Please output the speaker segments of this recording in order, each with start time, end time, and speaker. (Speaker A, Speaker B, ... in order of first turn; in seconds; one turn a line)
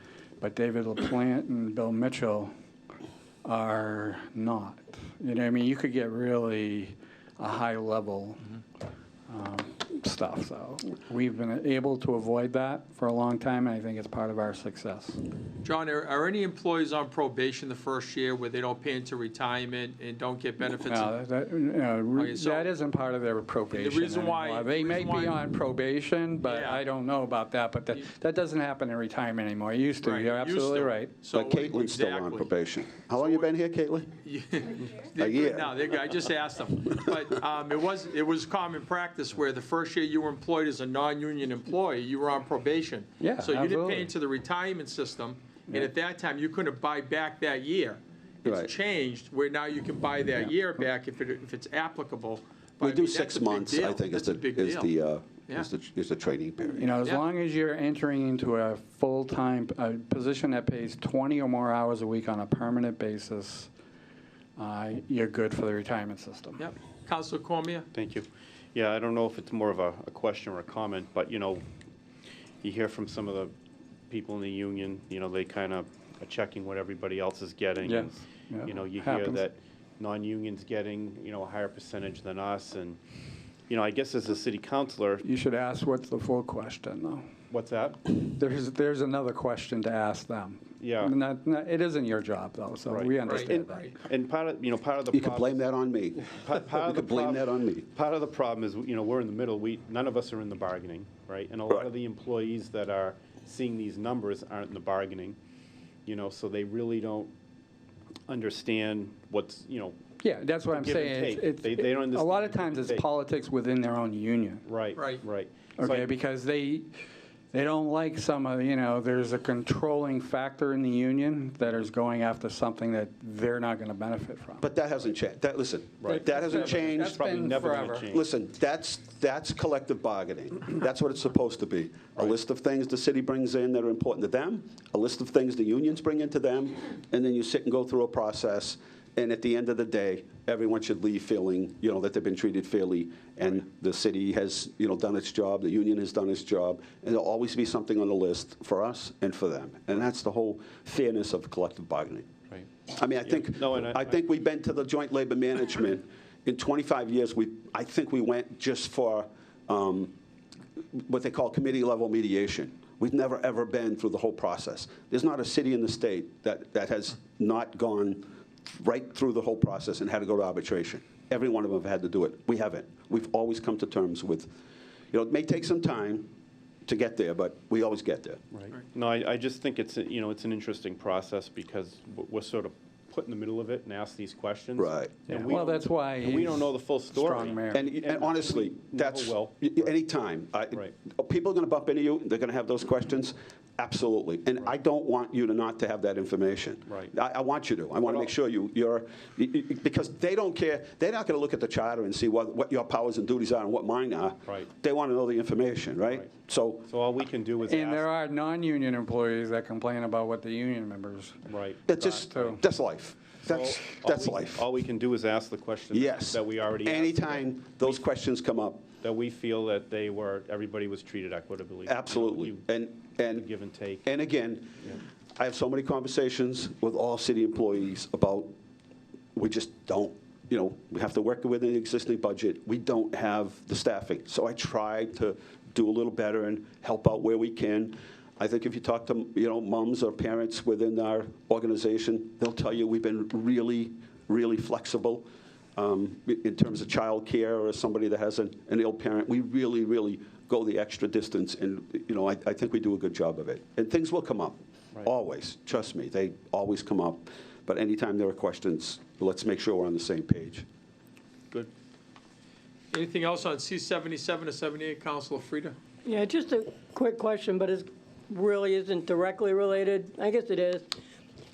Speaker A: 0.4-2.5
Speaker A: 3.4-8.4
Speaker A: 9.3-15.2
Speaker B: 15.6-21.1
Speaker A: 20.9-31.1
Speaker B: 22.1-22.7
Speaker B: 23.7-25.4
Speaker B: 26.4-26.8
Speaker B: 30.0-32.5
Speaker C: 31.3-34.1
Speaker B: 33.1-33.5
Speaker B: 34.2-54.9
Speaker C: 35.1-35.9
Speaker A: 43.2-44.1
Speaker C: 48.4-48.7
Speaker C: 52.8-56.9
Speaker A: 56.8-63.7
Speaker A: 64.6-66.6
Speaker B: 66.6-67.9
Speaker D: 67.9-71.6
Speaker D: 72.6-73.5
Speaker D: 74.1-83.0
Speaker A: 77.8-79.4
Speaker D: 83.7-85.2
Speaker A: 85.2-87.2
Speaker D: 87.5-88.0
Speaker A: 88.1-93.9
Speaker D: 90.8-91.2
Speaker D: 92.9-95.6
Speaker B: 93.2-93.9
Speaker C: 95.1-97.9
Speaker D: 96.2-105.4
Speaker D: 106.0-107.3
Speaker D: 108.3-110.0
Speaker A: 110.2-114.6
Speaker D: 110.7-113.1
Speaker D: 114.6-116.1
Speaker B: 114.9-115.2
Speaker A: 115.8-116.9
Speaker A: 117.5-124.7
Speaker C: 124.6-127.3
Speaker D: 126.0-128.2
Speaker A: 126.0-128.1
Speaker C: 128.1-152.3
Speaker C: 152.9-160.1
Speaker D: 153.2-154.2
Speaker C: 160.9-174.5
Speaker C: 175.1-176.3
Speaker C: 176.8-178.4
Speaker D: 178.5-189.9
Speaker C: 184.8-185.1
Speaker A: 185.3-187.8
Speaker C: 187.7-206.9
Speaker D: 206.8-208.1
Speaker A: 207.7-212.6
Speaker D: 211.5-211.9
Speaker C: 211.9-214.7
Speaker D: 213.4-218.0
Speaker C: 215.9-218.9
Speaker D: 219.0-222.6
Speaker C: 221.8-223.5
Speaker D: 223.2-224.1
Speaker C: 224.0-228.5
Speaker C: 229.3-260.6
Speaker B: 262.9-265.8
Speaker E: 266.0-270.9